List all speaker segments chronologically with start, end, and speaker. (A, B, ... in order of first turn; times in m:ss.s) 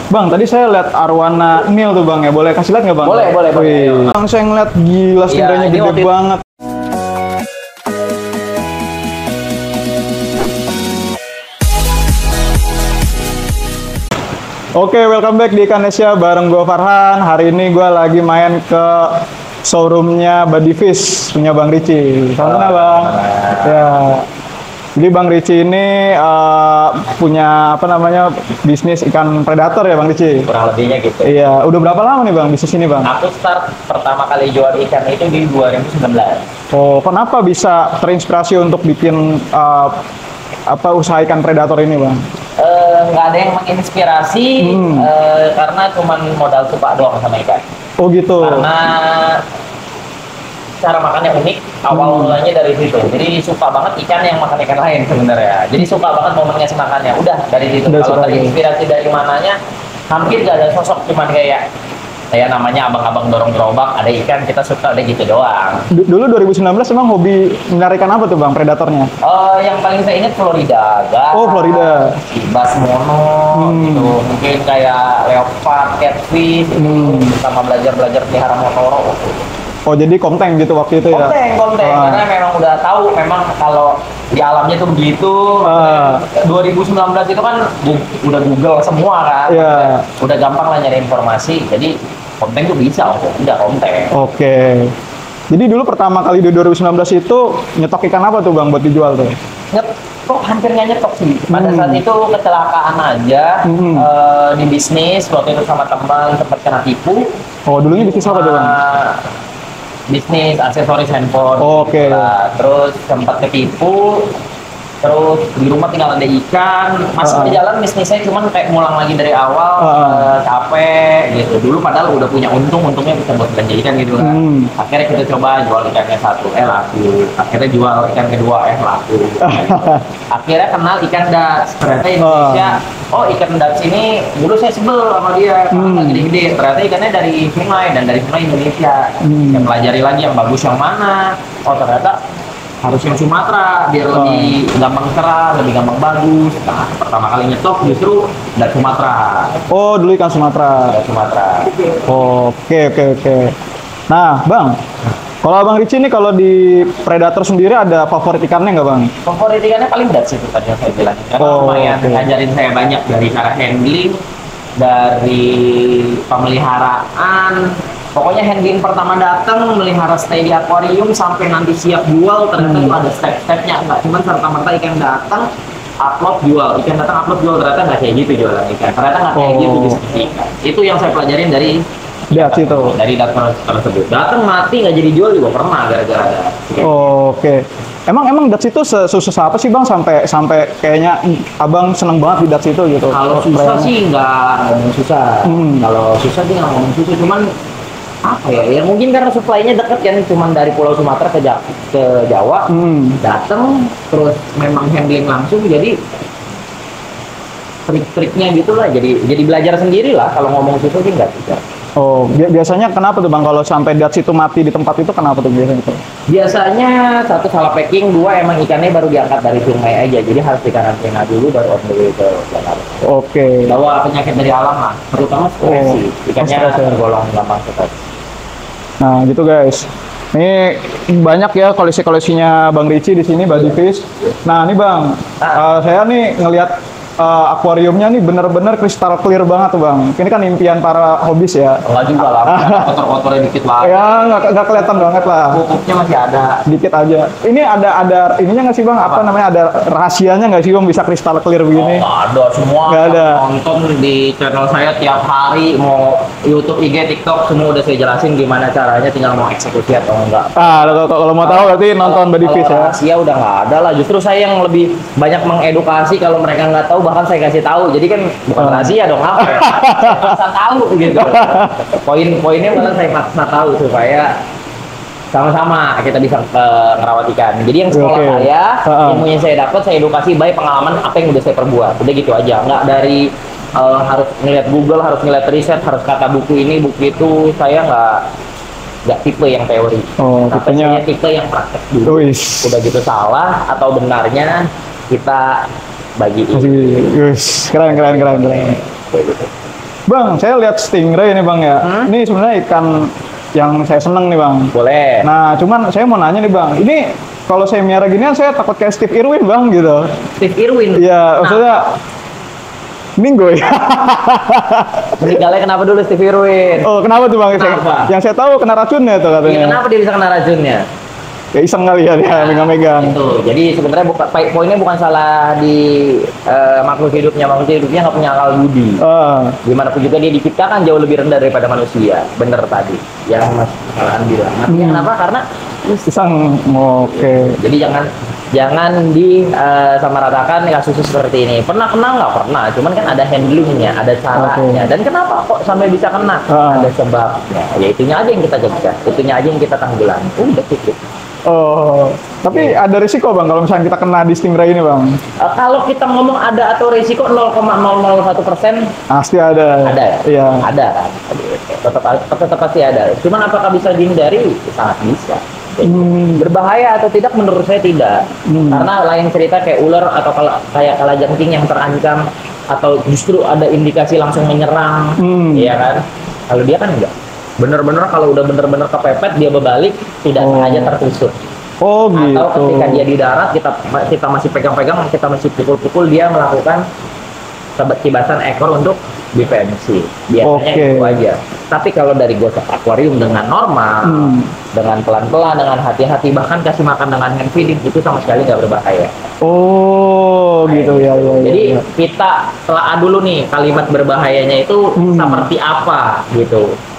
0:00.1-0:06.4 A
0:03.0-0:04.2 B
0:05.3-0:06.1 B
0:14.8-0:24.3 A
0:22.4-0:23.8 B
0:25.0-0:30.5 A
0:30.4-0:31.3 B
0:31.2-0:33.1 A
0:33.0-0:36.4 B
0:36.7-0:40.0 A
0:40.7-0:42.2 A
0:42.6-0:47.6 B
0:44.6-0:45.1 A
0:48.0-0:48.7 A
0:48.4-0:49.4 B
0:50.8-0:59.6 B
0:51.9-0:52.4 A
0:57.9-0:58.6 A
1:00.1-1:01.6 B
1:02.3-1:05.9 B
1:05.9-1:09.1 A
1:09.2-1:19.4 B
1:11.3-1:12.2 A
1:13.5-1:14.2 A
1:16.8-1:17.3 A
1:19.9-1:22.2 A
1:21.1-1:34.1 B
1:25.6-1:26.2 A
1:29.5-1:30.0 A
1:34.1-1:34.9 A
1:35.5-1:39.4 A
1:39.7-1:47.3 B
1:41.5-1:42.0 A
1:43.7-1:44.1 A
1:47.7-1:48.8 A
1:47.9-1:49.2 B
1:50.1-1:54.3 B
1:51.6-1:52.3 A
1:55.0-2:22.2 B
1:57.2-1:57.6 A
1:59.8-2:00.3 A
2:04.2-2:04.7 A
2:09.4-2:10.0 A
2:12.2-2:12.8 A
2:15.7-2:16.2 A
2:19.2-2:19.7 A
2:22.8-2:29.6 B
2:24.1-2:24.6 A
2:29.7-2:30.9 A
2:30.9-2:32.0 B
2:32.1-2:33.6 A
2:34.1-2:34.8 A
2:35.4-2:39.1 A
2:39.2-2:44.2 B
2:41.4-2:42.3 A
2:44.8-2:55.5 B
2:52.6-2:53.0 A
2:56.0-3:01.8 B
2:59.4-3:00.0 A
3:02.3-3:07.0 B
3:02.3-3:03.0 A
3:06.8-3:13.9 A
3:13.1-3:17.4 B
3:15.5-3:15.9 A
3:18.2-3:22.7 B
3:22.7-3:23.2 A
3:23.2-3:26.0 B
3:27.9-3:31.6 B
3:32.0-3:36.0 A
3:36.3-3:43.0 B
3:43.1-3:43.7 A
3:43.6-3:47.9 B
3:45.6-3:47.0 A
3:49.0-4:01.8 A
3:55.4-3:55.7 B
4:01.8-4:06.6 B
4:02.4-4:02.9 A
4:03.8-4:05.6 A
4:06.7-4:12.0 A
4:09.0-4:09.4 B
4:11.7-4:34.3 B
4:12.9-4:13.4 A
4:20.6-4:23.0 A
4:28.6-4:30.4 A
4:31.1-4:31.8 A
4:35.3-4:48.2 B
4:37.9-4:39.2 A
4:49.1-4:55.6 B
4:50.2-4:51.0 A
4:52.1-4:52.7 A
4:56.2-4:57.1 B
4:56.5-4:58.8 A
4:57.8-4:59.5 B
5:00.1-5:04.7 A
5:01.8-5:02.1 B
5:04.7-5:05.3 B
5:05.2-5:10.1 A
5:10.4-5:11.9 B
5:11.0-5:11.8 A
5:13.2-5:15.4 A
5:15.2-5:16.9 B
5:16.8-5:19.8 A
5:17.5-5:18.1 B
5:19.4-5:20.8 B
5:21.6-5:23.2 A
5:22.3-5:29.0 B
5:29.0-5:29.6 A
5:29.6-5:36.1 B
5:34.7-5:35.1 A
5:36.1-5:37.6 A
5:37.5-5:51.0 B
5:44.3-5:44.8 A
5:46.5-5:46.9 A
5:51.5-5:55.2 A
5:55.4-5:58.9 B
5:59.1-6:00.6 A
5:59.8-6:21.4 B
6:05.8-6:06.5 A
6:08.5-6:08.9 A
6:15.2-6:15.7 A
6:20.4-6:21.0 A
6:21.8-6:23.1 A
6:22.1-6:26.8 B
6:27.8-6:39.1 B
6:30.4-6:31.2 A
6:34.0-6:34.5 A
6:39.4-6:41.8 A
6:40.6-6:46.7 B
6:45.0-6:45.5 A